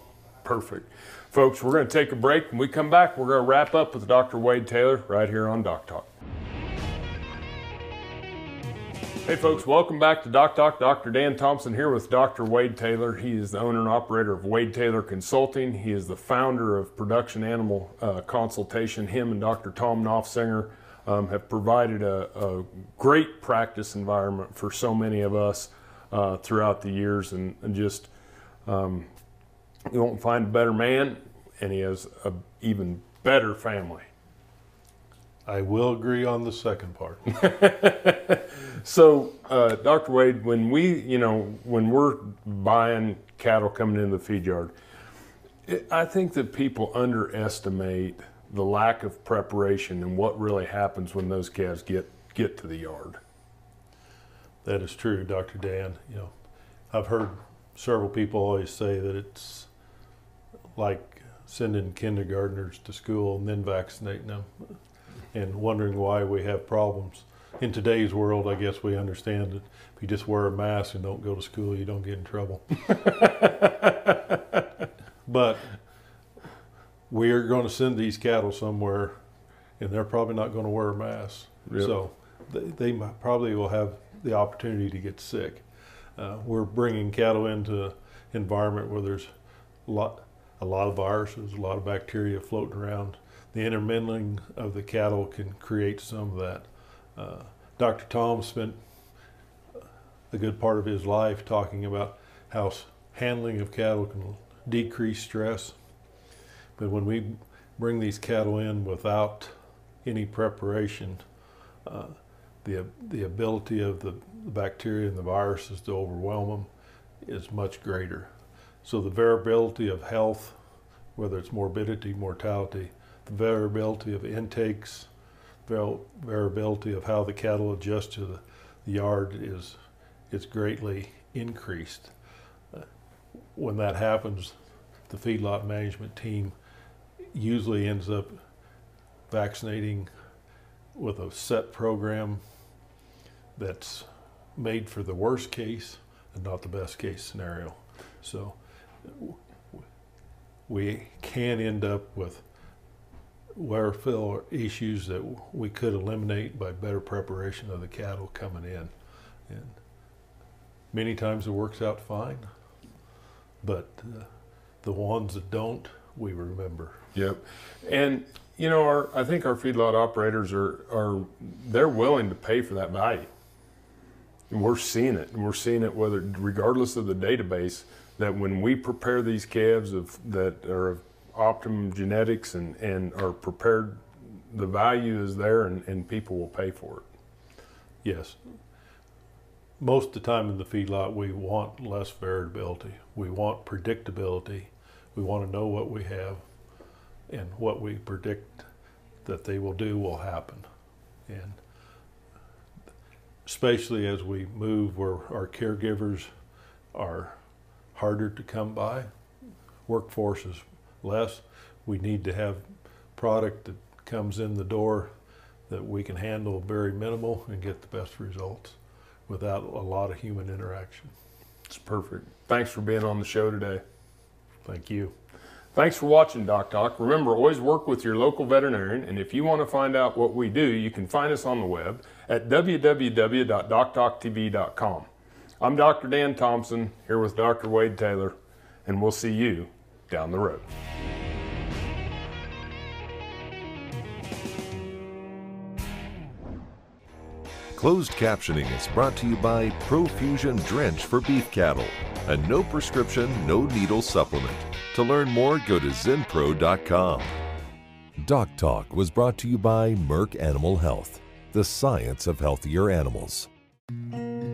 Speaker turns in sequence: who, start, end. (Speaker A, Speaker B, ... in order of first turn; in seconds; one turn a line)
Speaker A: 0.5-6.1
Speaker A: 9.3-28.1
Speaker A: 28.7-29.1
Speaker A: 29.9-34.1
Speaker B: 35.5-37.3
Speaker A: 37.4-44.7
Speaker A: 45.7-53.2
Speaker B: 54.6-56.3
Speaker B: 56.9-59.7
Speaker B: 60.8-64.5
Speaker B: 65.3-72.8
Speaker A: 73.3-73.7
Speaker B: 75.3-75.6
Speaker B: 77.1-79.2
Speaker B: 79.8-85.6
Speaker B: 86.2-89.3
Speaker B: 89.9-98.8
Speaker B: 100.3-105.8
Speaker B: 106.8-111.2
Speaker B: 111.8-116.7
Speaker B: 117.2-118.3
Speaker B: 118.8-120.6
Speaker B: 121.2-125.1
Speaker B: 125.7-129.8
Speaker B: 130.3-132.1
Speaker B: 133.5-134.5
Speaker B: 135.1-136.6
Speaker B: 137.3-138.4
Speaker B: 139.3-140.1
Speaker B: 140.9-142.4
Speaker B: 143.6-149.4
Speaker B: 150.7-152.4
Speaker B: 153.5-158.9
Speaker B: 159.5-159.8
Speaker B: 160.9-162.5
Speaker B: 163.6-164.3
Speaker B: 164.8-167.0
Speaker A: 167.1-173.3
Speaker A: 174.5-187.1
Speaker B: 188.0-188.4
Speaker B: 189.8-196.4
Speaker B: 197.3-198.7
Speaker B: 199.2-200.7
Speaker B: 201.3-201.6
Speaker B: 203.4-206.3
Speaker B: 206.9-207.4
Speaker B: 207.9-209.1
Speaker B: 209.9-215.1
Speaker B: 215.7-221.1
Speaker A: 221.7-223.8
Speaker B: 224.6-225.1
Speaker A: 225.8-235.1
Speaker A: 235.6-238.3
Speaker A: 238.9-240.7
Speaker C: 247.7-257.4
Speaker C: 258.2-263.5